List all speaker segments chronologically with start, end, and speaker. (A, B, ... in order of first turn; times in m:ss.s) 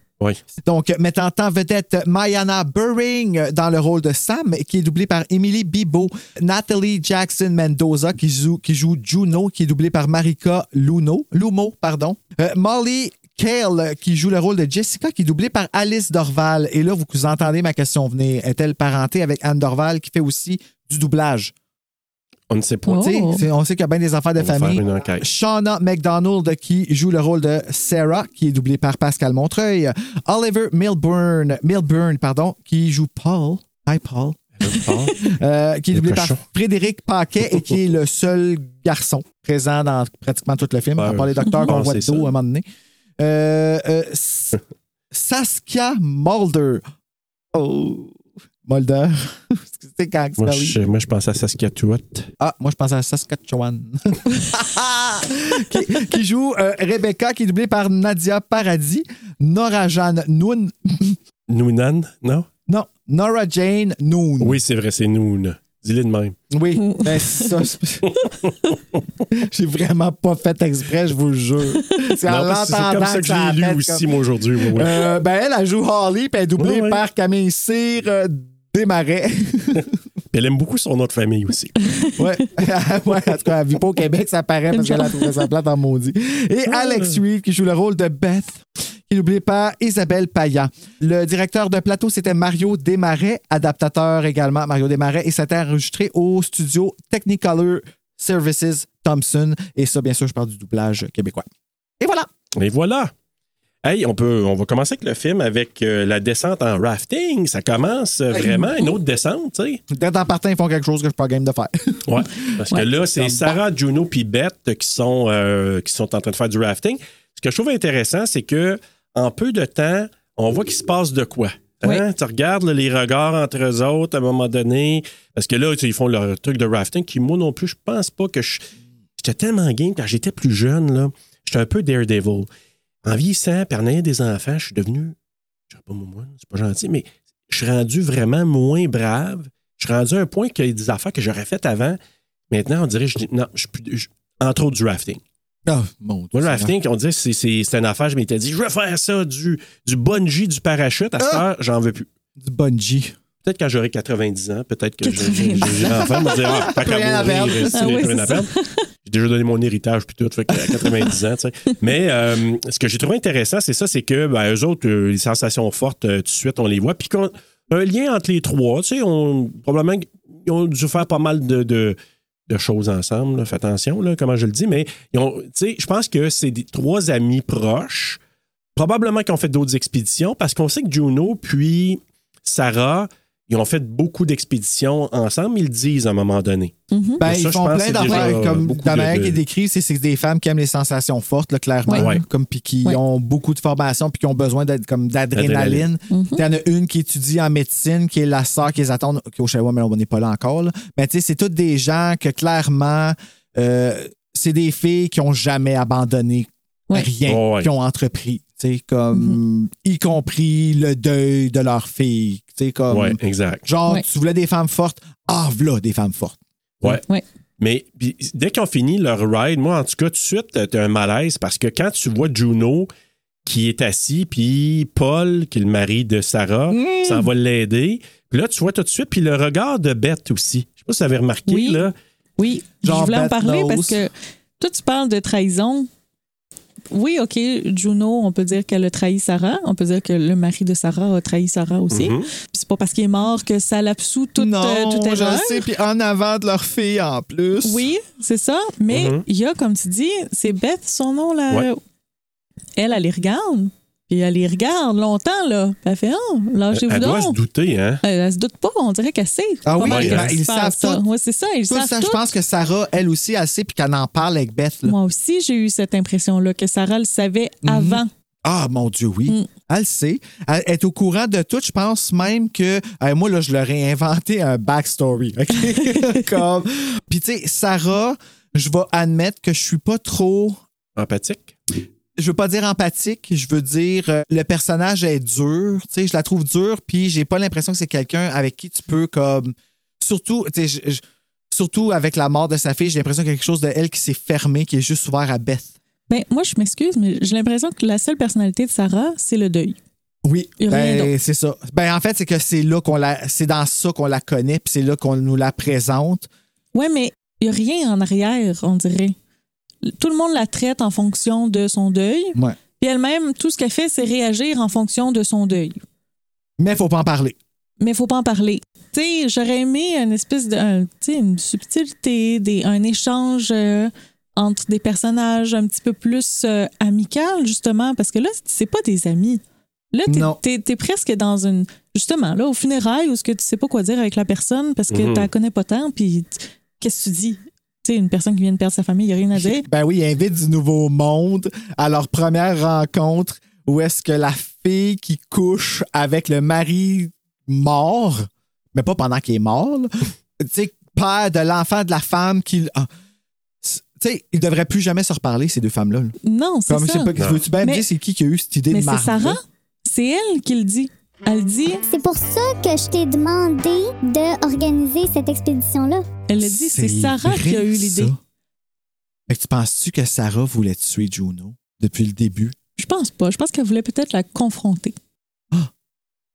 0:00.6-0:21.5 A
0:22.5-0:23.1 B
0:22.9-0:23.4 C
0:22.9-0:34.5 A
0:24.4-0:25.2 B
0:34.6-0:35.1 B
0:34.8-0:35.2 C
0:35.1-0:42.6 A
0:35.9-0:36.4 B
0:41.0-0:42.3 B
0:41.4-0:41.7 C
0:43.2-0:44.6 A
0:45.1-0:46.8 A
0:47.5-0:50.8 A
0:50.4-0:52.3 B
0:52.4-1:01.2 A
1:01.5-1:02.5 B
1:02.7-1:04.6 A
1:04.4-1:06.4 B
1:06.5-1:08.2 A
1:06.8-1:07.6 C
1:08.4-1:09.0 B
1:09.3-1:14.1 A
1:12.3-1:15.0 B
1:14.7-1:19.9 A
1:16.6-1:17.0 B
1:20.3-1:21.8 B
1:21.8-1:22.2 C
1:22.2-1:41.4 A
1:24.7-1:25.5 C
1:26.7-1:27.2 B
1:42.0-1:42.3 A
1:42.5-1:43.1 B
1:43.8-1:49.8 B
1:49.9-1:52.2 A
1:52.0-2:12.5 B
1:52.9-1:53.5 A
2:13.0-2:15.1 B
2:15.7-2:22.0 B
2:22.5-2:25.2 B
2:25.6-2:26.7 A
2:26.3-2:32.1 B
2:31.2-2:31.4 A
2:32.4-2:33.2 A
2:33.4-2:38.5 B
2:35.0-2:36.2 C
2:35.6-2:38.1 A
2:37.7-2:38.7 C
2:39.0-2:52.0 B
2:40.5-2:41.0 A
2:52.5-2:58.2 B
2:58.8-3:09.4 B
3:06.9-3:07.2 C
3:07.2-3:37.0 A
3:08.0-3:08.4 C
3:11.9-3:12.2 B
3:15.3-3:15.9 B
3:16.1-3:16.4 C
3:27.2-3:27.7 B
3:29.1-3:29.4 C
3:32.9-3:33.7 B
3:37.6-3:42.9 B
3:43.4-3:51.9 B
3:46.7-3:47.3 A
3:51.5-3:51.8 C
3:52.4-3:55.9 C
3:52.8-3:54.0 A
3:56.9-4:05.6 C
4:01.9-4:02.3 B
4:04.4-4:07.9 A
4:07.6-4:11.8 C
4:08.9-4:09.2 B
4:12.8-4:17.4 C
4:16.7-4:18.0 B
4:18.0-4:22.2 C
4:19.6-4:21.0 A
4:19.8-4:20.3 B
4:21.7-4:24.9 A
4:24.8-4:28.1 C
4:27.6-4:40.6 A
4:41.0-4:41.5 B
4:42.2-4:55.7 A
4:56.1-4:59.8 C
5:00.2-5:06.3 A
5:00.6-5:01.1 C
5:06.7-5:09.2 C
5:09.8-5:15.8 C
5:16.6-5:17.4 A
5:17.8-5:29.4 C
5:29.9-5:39.6 C
5:30.1-5:30.4 A
5:34.9-5:35.3 B
5:39.3-5:52.9 A
5:53.6-5:56.1 A
5:56.2-5:57.8 C
5:56.7-5:59.4 A
5:57.2-5:57.4 B
5:58.7-6:01.8 C
6:01.8-6:06.0 D
6:06.3-6:08.1 C
6:06.4-6:08.2 A
6:09.3-6:12.6 A
6:12.8-6:15.0 C